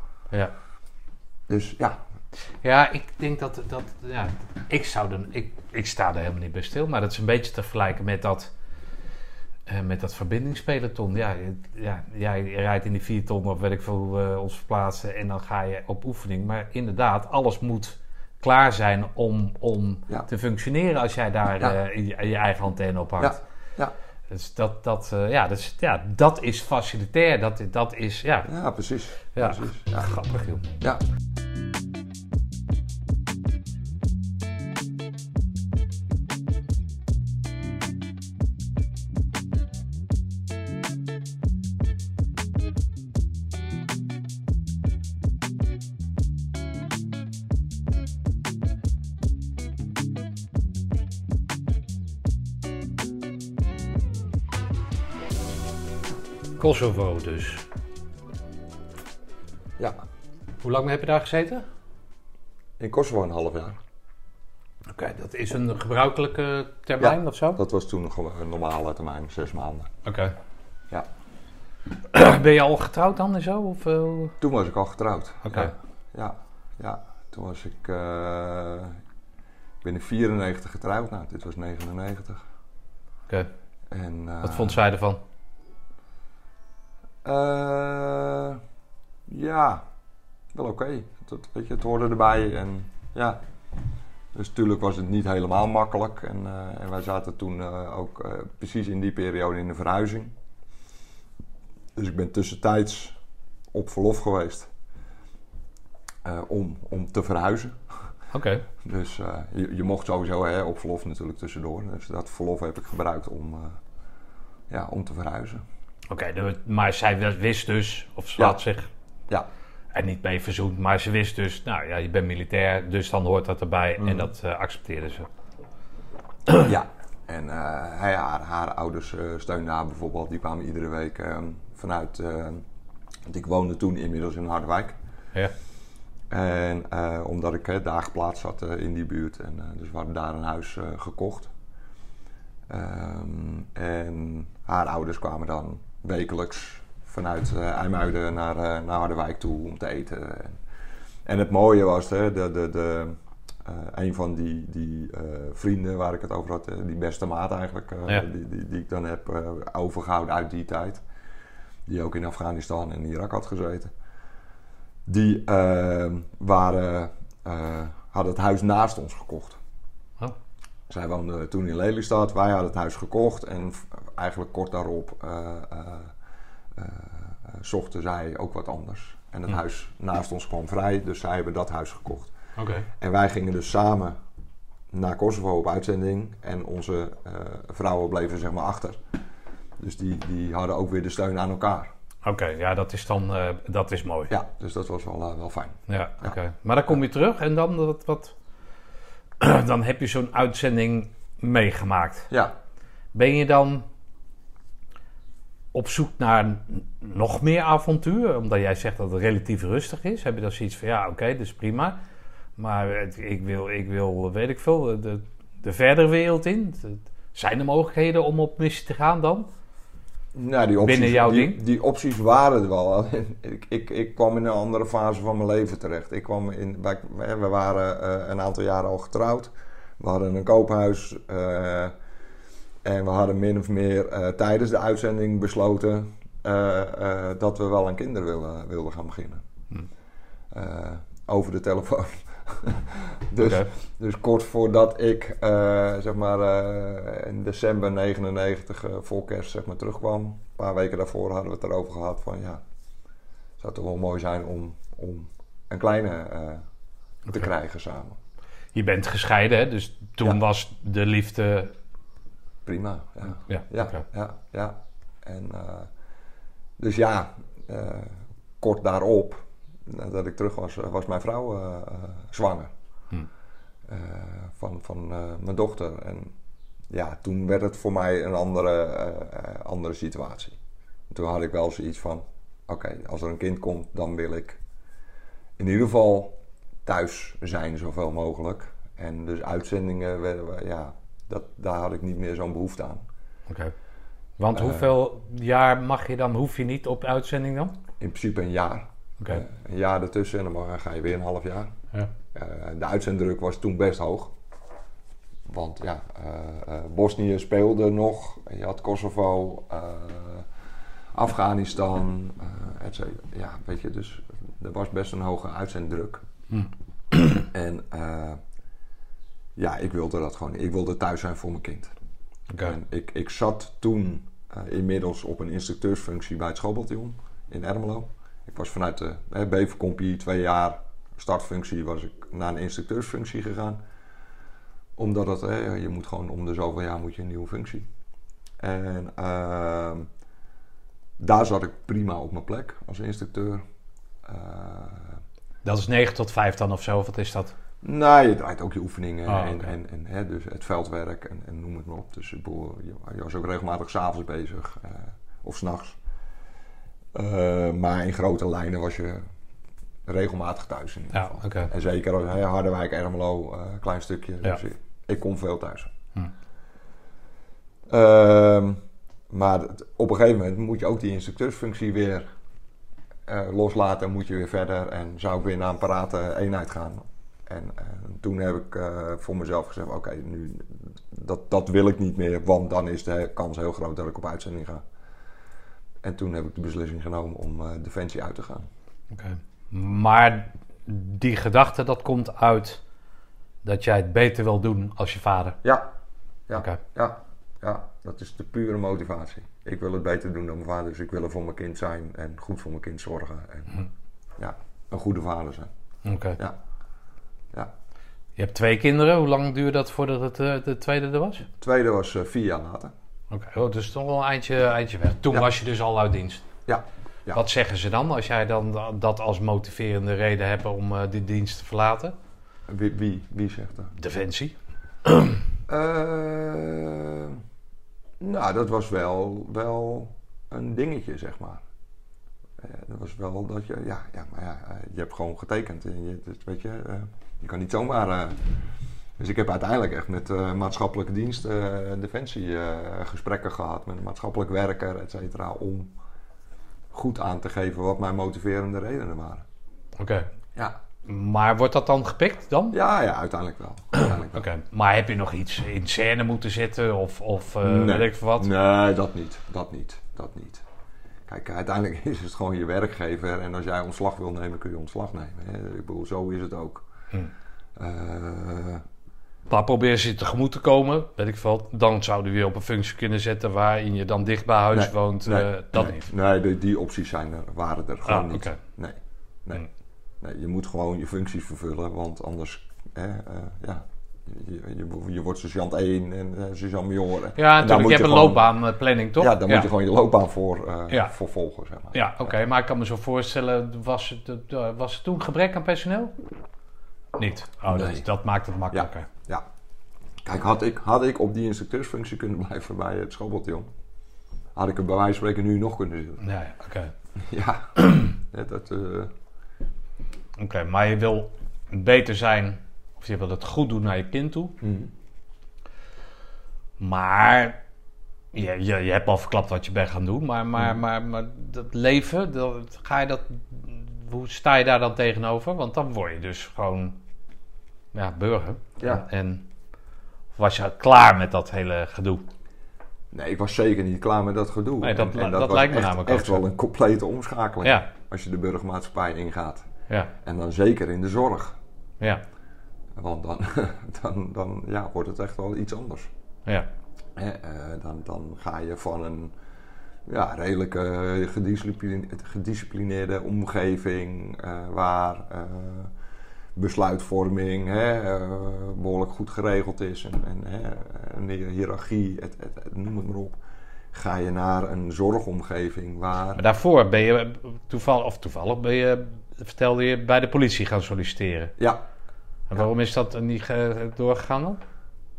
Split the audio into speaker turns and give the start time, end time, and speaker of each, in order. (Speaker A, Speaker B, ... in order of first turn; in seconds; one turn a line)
Speaker A: 1.5-2.0
Speaker B: 2.6-8.5
Speaker B: 9.7-23.4
Speaker A: 23.2-23.9
Speaker B: 24.3-28.5
Speaker A: 28.4-30.1
Speaker B: 29.3-30.6
Speaker B: 56.6-57.6
Speaker B: 60.6-61.6
Speaker A: 62.8-63.8
Speaker B: 64.9-67.6
Speaker A: 67.0-69.9
Speaker B: 70.0-70.3
Speaker B: 72.1-74.3
Speaker A: 74.4-79.0
Speaker B: 75.4-75.7
Speaker A: 79.8-82.4
Speaker A: 83.9-84.8
Speaker B: 84.4-85.2
Speaker A: 87.2-88.6
Speaker A: 89.3-89.8
Speaker A: 90.5-93.4
Speaker A: 94.3-100.3
Speaker A: 102.0-103.2
Speaker A: 103.7-104.7
Speaker A: 106.2-108.0
Speaker B: 108.3-108.7
Speaker A: 108.8-113.8
Speaker A: 114.7-115.6
Speaker B: 116.1-118.9
Speaker B: 119.9-125.3
Speaker A: 124.0-124.3
Speaker A: 126.6-132.6
Speaker A: 133.3-134.9
Speaker A: 136.3-141.5
Speaker A: 142.7-150.6
Speaker A: 151.2-161.0
Speaker A: 161.9-163.9
Speaker A: 165.1-169.6
Speaker A: 170.9-176.1
Speaker A: 176.7-182.3
Speaker B: 182.6-182.9
Speaker A: 183.0-184.2
Speaker A: 184.9-189.0
Speaker A: 189.8-191.9
Speaker B: 192.2-194.3
Speaker A: 194.3-196.3
Speaker B: 195.9-198.3
Speaker B: 199.4-202.3
Speaker B: 203.1-203.8
Speaker B: 205.7-212.0
Speaker B: 212.6-219.5
Speaker A: 220.3-231.9
Speaker B: 220.8-221.6
Speaker A: 232.8-239.4
Speaker A: 240.5-252.6
Speaker B: 243.4-243.7
Speaker A: 253.6-256.6
Speaker A: 257.3-258.2
Speaker B: 258.7-261.7
Speaker A: 262.6-265.9
Speaker B: 263.3-264.0
Speaker A: 266.8-272.7
Speaker A: 273.9-276.3
Speaker A: 276.9-280.6
Speaker A: 281.1-284.6
Speaker A: 285.6-293.0
Speaker B: 294.4-297.7
Speaker A: 294.5-294.9
Speaker A: 298.0-301.7
Speaker A: 302.3-304.3
Speaker A: 305.5-310.5
Speaker A: 311.1-316.2
Speaker B: 316.5-317.4
Speaker A: 317.5-318.4
Speaker A: 319.6-321.9
Speaker B: 322.5-322.8
Speaker A: 322.6-333.8
Speaker A: 334.9-337.9
Speaker A: 338.6-340.1
Speaker A: 341.2-343.6
Speaker A: 344.2-345.2
Speaker B: 345.6-347.5
Speaker A: 347.8-356.0
Speaker B: 349.3-349.7
Speaker A: 357.1-359.2
Speaker A: 360.1-365.9
Speaker B: 361.1-361.7
Speaker A: 367.9-372.3
Speaker A: 373.3-384.8
Speaker A: 386.0-388.7
Speaker B: 389.1-392.8
Speaker B: 393.6-395.6
Speaker A: 396.5-403.9
Speaker A: 404.4-405.7
Speaker B: 406.0-406.4
Speaker B: 408.4-411.5
Speaker A: 411.6-412.9
Speaker B: 413.3-416.4
Speaker A: 416.7-417.4
Speaker B: 417.3-422.1
Speaker A: 422.7-423.9
Speaker B: 424.0-425.4
Speaker A: 425.7-427.4
Speaker A: 428.2-431.6
Speaker A: 432.6-438.5
Speaker A: 439.2-445.9
Speaker A: 446.9-449.4
Speaker B: 450.0-450.3
Speaker B: 451.0-452.8
Speaker A: 452.7-454.4
Speaker B: 453.9-458.5
Speaker A: 457.6-460.6
Speaker A: 461.3-466.9
Speaker A: 467.8-468.8
Speaker B: 469.5-476.1
Speaker A: 474.7-479.6
Speaker B: 478.1-478.6
Speaker A: 480.2-488.4
Speaker B: 487.4-489.7
Speaker A: 489.2-492.3
Speaker B: 491.9-496.1
Speaker B: 497.2-499.1
Speaker A: 497.7-498.1
Speaker A: 498.7-499.4
Speaker A: 500.2-503.7
Speaker A: 504.5-506.2
Speaker B: 506.2-506.9
Speaker A: 507.2-509.1
Speaker B: 510.4-514.6
Speaker A: 514.6-514.9
Speaker B: 516.8-517.6
Speaker B: 518.3-527.0
Speaker B: 527.9-529.5
Speaker B: 530.3-532.3
Speaker A: 533.1-539.6
Speaker B: 534.8-536.4
Speaker A: 540.2-541.6
Speaker A: 543.0-546.1
Speaker A: 547.1-549.3
Speaker A: 550.1-555.9
Speaker A: 556.5-563.4
Speaker A: 563.9-566.4
Speaker B: 566.4-571.5
Speaker B: 572.5-574.6